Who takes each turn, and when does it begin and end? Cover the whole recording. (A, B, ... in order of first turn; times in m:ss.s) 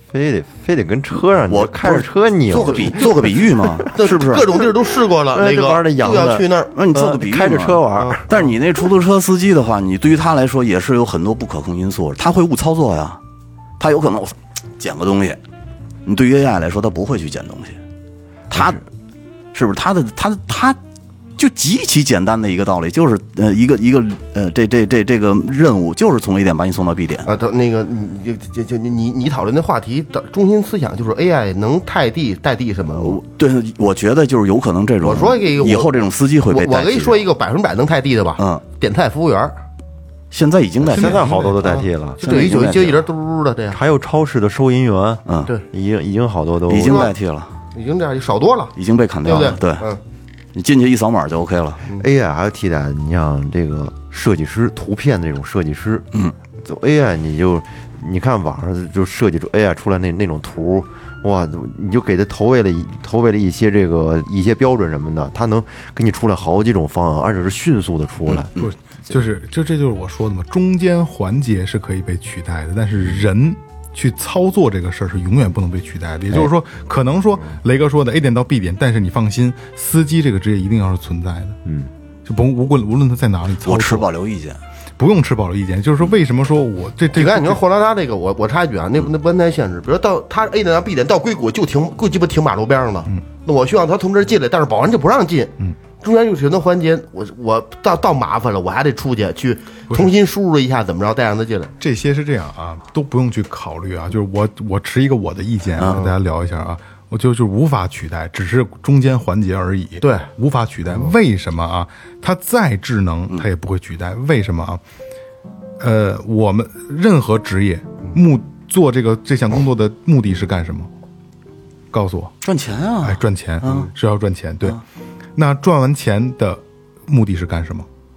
0:00.1-0:03.2 A
0:01.5-0:04.5 B
0:03.9-0:06.7 C
0:05.3-0:08.3 A
0:06.8-0:13.2 B
0:13.8-0:15.4 B
0:16.0-0:17.8 B
0:18.5-0:18.8 B
0:18.5-0:18.8 A
0:19.5-0:20.8 B
0:21.4-0:27.3 B
0:27.2-0:33.2 C
0:33.0-0:37.2 B
0:35.0-0:35.9 C
0:36.5-0:39.6 C
0:38.4-0:38.6 B
0:40.3-0:41.4 B
0:40.9-0:41.7 D
0:40.9-0:42.4 A
0:41.6-0:43.8 C
0:42.2-0:43.0 B
0:43.7-0:47.1 A
0:46.7-0:47.6 B
0:46.8-0:47.1 C
0:47.7-0:50.0 C
0:48.8-0:49.9 B
0:50.5-0:51.8 B
0:52.0-0:56.0 A
0:56.6-1:08.5 A
1:08.3-1:08.7 B
1:08.6-1:21.6 D
1:21.6-1:21.9 A
1:22.3-1:24.1 D
1:23.6-1:24.6 B
1:25.0-1:27.6 D
1:27.1-1:41.7 C
1:41.8-1:54.8 D
1:45.8-1:46.1 C
1:50.0-1:50.3 C
1:55.8-2:00.9 D
2:01.9-2:02.3 D
2:02.4-2:03.9 B
2:03.0-2:04.8 D
2:05.4-2:07.9 D